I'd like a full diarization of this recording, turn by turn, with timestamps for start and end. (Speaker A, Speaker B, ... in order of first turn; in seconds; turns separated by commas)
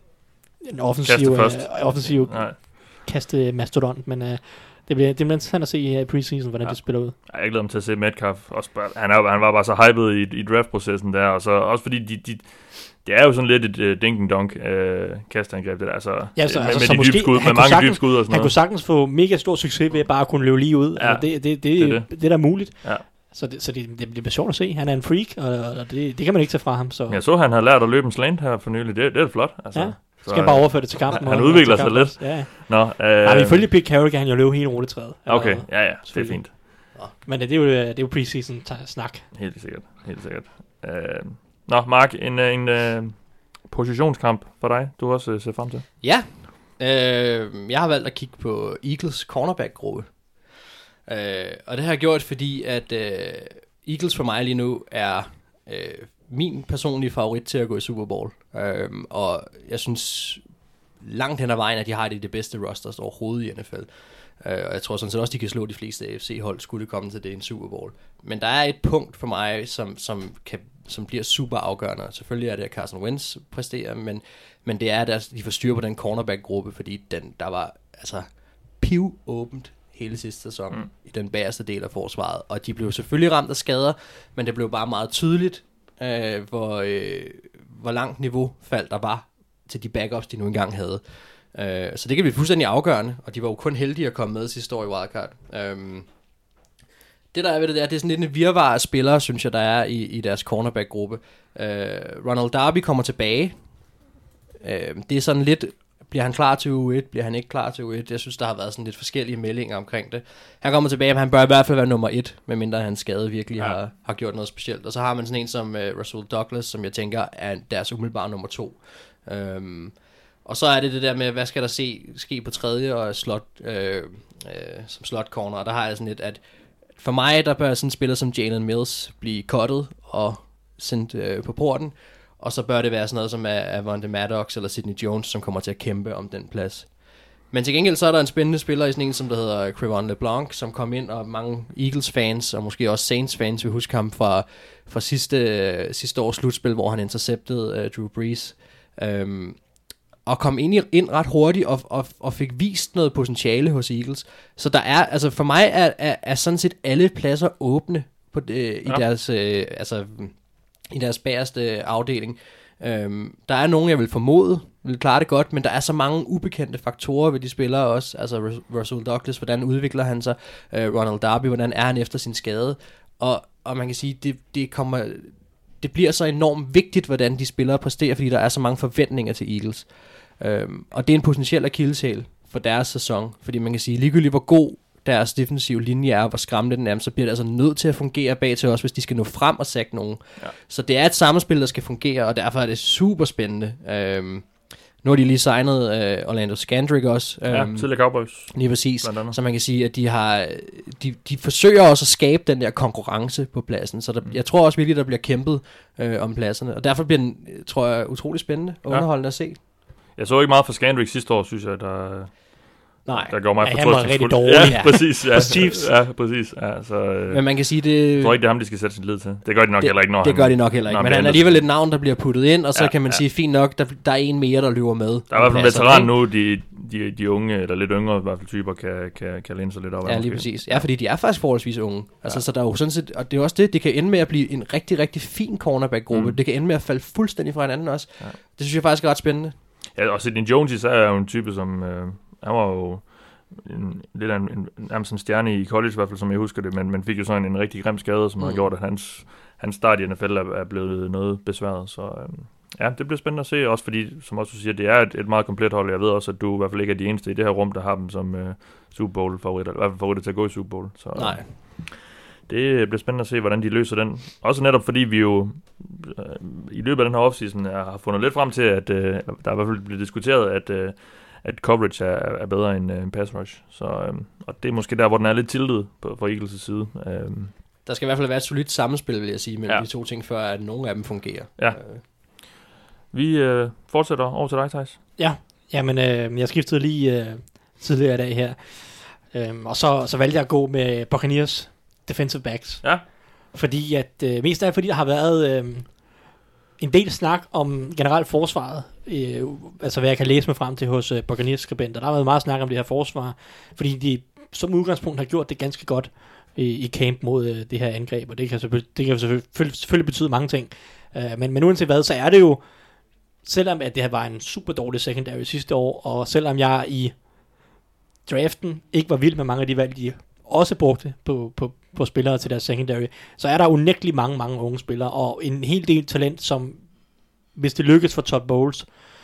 Speaker A: 0.6-7.1, Speaker B: 1.0-2.6, Speaker B: 6.6-18.5, Speaker A: 16.4-27.2, Speaker B: 20.9-23.0, Speaker B: 27.1-33.6, Speaker A: 29.7-39.3, Speaker B: 35.3-36.6, Speaker B: 39.3-45.9, Speaker C: 46.0-50.5, Speaker C: 51.0-60.4, Speaker C: 61.0-96.1, Speaker C: 97.3-103.6, Speaker C: 104.6-126.4, Speaker C: 127.0-136.9, Speaker C: 137.5-149.6, Speaker C: 150.2-209.6, Speaker B: 197.5-199.3, Speaker B: 210.1-221.8, Speaker C: 213.1-213.3, Speaker A: 213.6-215.8, Speaker C: 214.6-215.6, Speaker C: 217.3-218.4, Speaker C: 219.8-226.1, Speaker B: 222.7-223.2, Speaker B: 225.3-230.9, Speaker C: 230.0-239.5, Speaker B: 236.1-236.4, Speaker B: 239.9-277.5, Speaker C: 248.4-248.7, Speaker C: 261.1-261.5, Speaker C: 277.9-282.0, Speaker B: 281.6-282.5, Speaker B: 283.1-285.0, Speaker A: 285.2-296.1, Speaker A: 296.8-312.6, Speaker A: 313.4-317.2, Speaker A: 318.2-326.9, Speaker A: 327.5-328.9